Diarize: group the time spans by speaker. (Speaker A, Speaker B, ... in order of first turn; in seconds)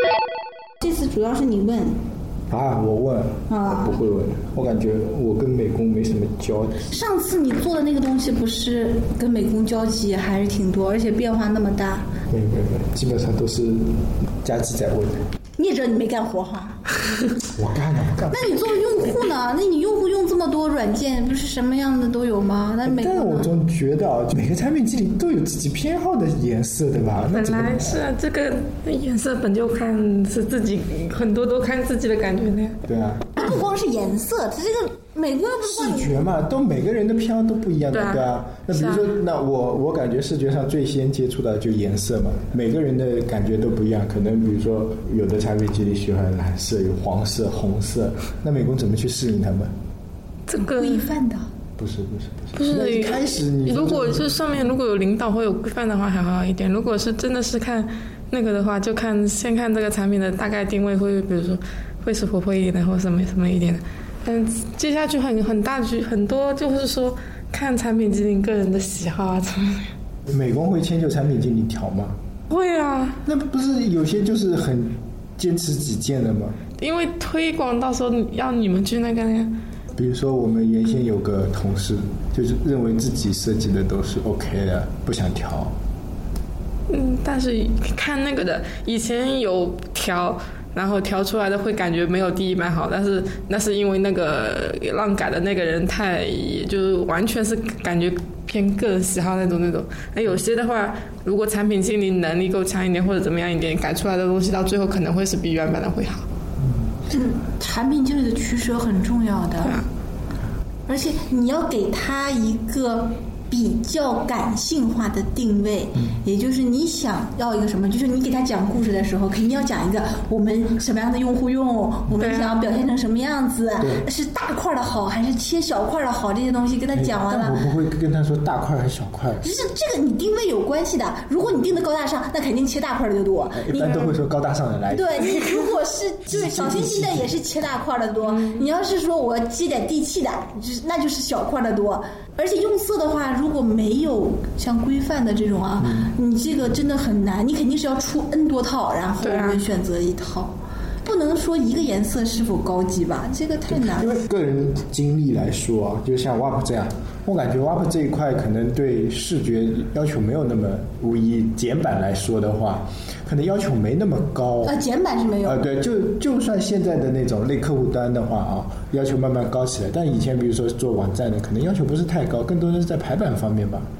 Speaker A: 0.8-2.0, 3.5-3.9, 6.9-12.1, 15.6-16.8, 18.3-23.5, 33.3-36.1, 50.6-51.5, 107.1-109.8, 110.9-127.6, 129.4-134.1, 134.9-154.1, 164.6-165.6
Speaker B: 2.5-6.9, 12.3-15.2, 17.5-18.8, 22.8-28.0, 32.8-33.4, 35.6-49.7, 51.8-54.6, 70.3-72.2, 73.2-76.6, 79.9-85.7, 123.8-124.0, 126.9-129.4, 133.5-135.5, 136.3-137.3, 145.8-146.1, 153.7-164.8, 165.4-173.9
Speaker C: 27.3-32.8, 37.9-39.1, 50.5-51.1, 52.5-69.9, 72.5-73.2, 76.8-79.5, 86.9-106.2, 109.6-109.9, 122.2-122.7, 138.4-138.6, 149.2-149.7